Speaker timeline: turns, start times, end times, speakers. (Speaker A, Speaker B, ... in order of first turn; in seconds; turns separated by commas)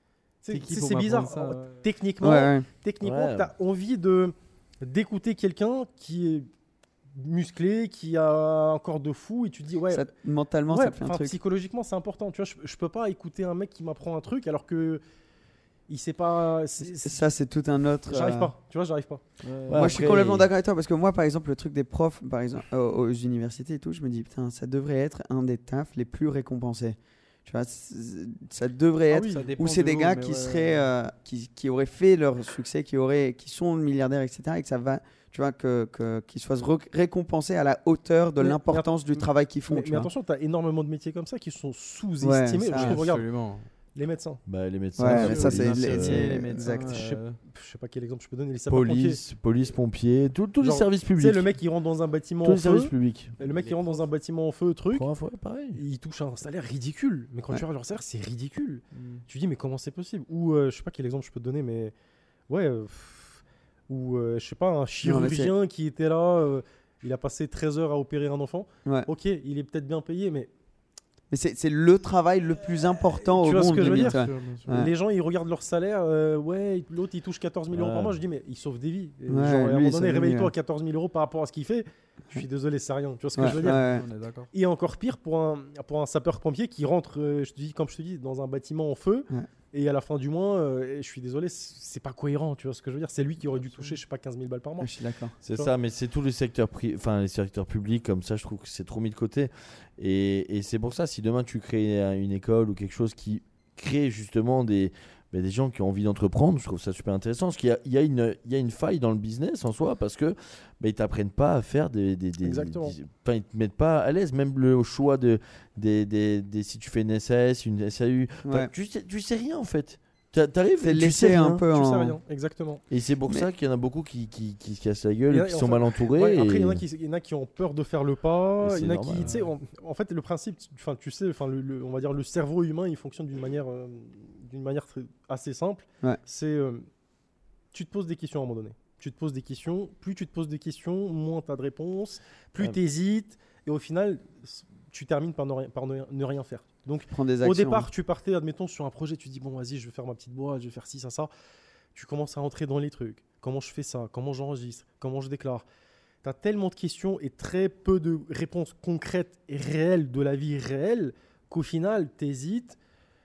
Speaker A: 0.4-6.5, Speaker B: 0.5-1.8, Speaker C: 2.2-2.7, Speaker D: 3.0-3.5, Speaker A: 7.1-10.1, Speaker C: 9.9-11.4, Speaker A: 10.7-15.0, Speaker A: 15.9-17.3, Speaker C: 16.8-18.5, Speaker A: 18.1-19.2, Speaker B: 19.4-20.0, Speaker D: 19.7-20.5, Speaker C: 19.7-40.1, Speaker A: 29.1-29.5, Speaker B: 29.3-30.9, Speaker A: 38.4-43.3, Speaker C: 42.2-43.0, Speaker B: 42.8-43.7, Speaker A: 44.0-44.4, Speaker D: 44.5-46.3, Speaker C: 45.0-47.0, Speaker B: 45.0-47.4, Speaker A: 46.9-49.2, Speaker D: 48.7-51.5, Speaker A: 50.6-55.1, Speaker D: 52.4-53.3, Speaker B: 53.4-54.1, Speaker D: 54.9-55.8, Speaker A: 55.8-61.9, Speaker B: 58.9-59.2, Speaker A: 62.5-70.5, Speaker C: 65.0-65.5, Speaker C: 71.3-74.9, Speaker A: 73.3-83.9, Speaker B: 73.8-74.7, Speaker D: 77.7-78.2, Speaker C: 79.3-80.5, Speaker C: 83.4-84.1, Speaker B: 83.4-84.5, Speaker A: 84.5-94.9, Speaker B: 93.5-94.0, Speaker C: 94.8-95.4, Speaker A: 95.5-95.7, Speaker D: 95.5-121.6, Speaker A: 112.4-113.0, Speaker C: 118.4-118.7, Speaker C: 120.8-122.2, Speaker A: 121.7-122.8, Speaker D: 122.9-126.8, Speaker A: 125.3-136.9, Speaker D: 128.6-129.3, Speaker A: 137.7-151.3, Speaker C: 147.1-147.9, Speaker A: 151.9-155.7, Speaker A: 156.2-162.8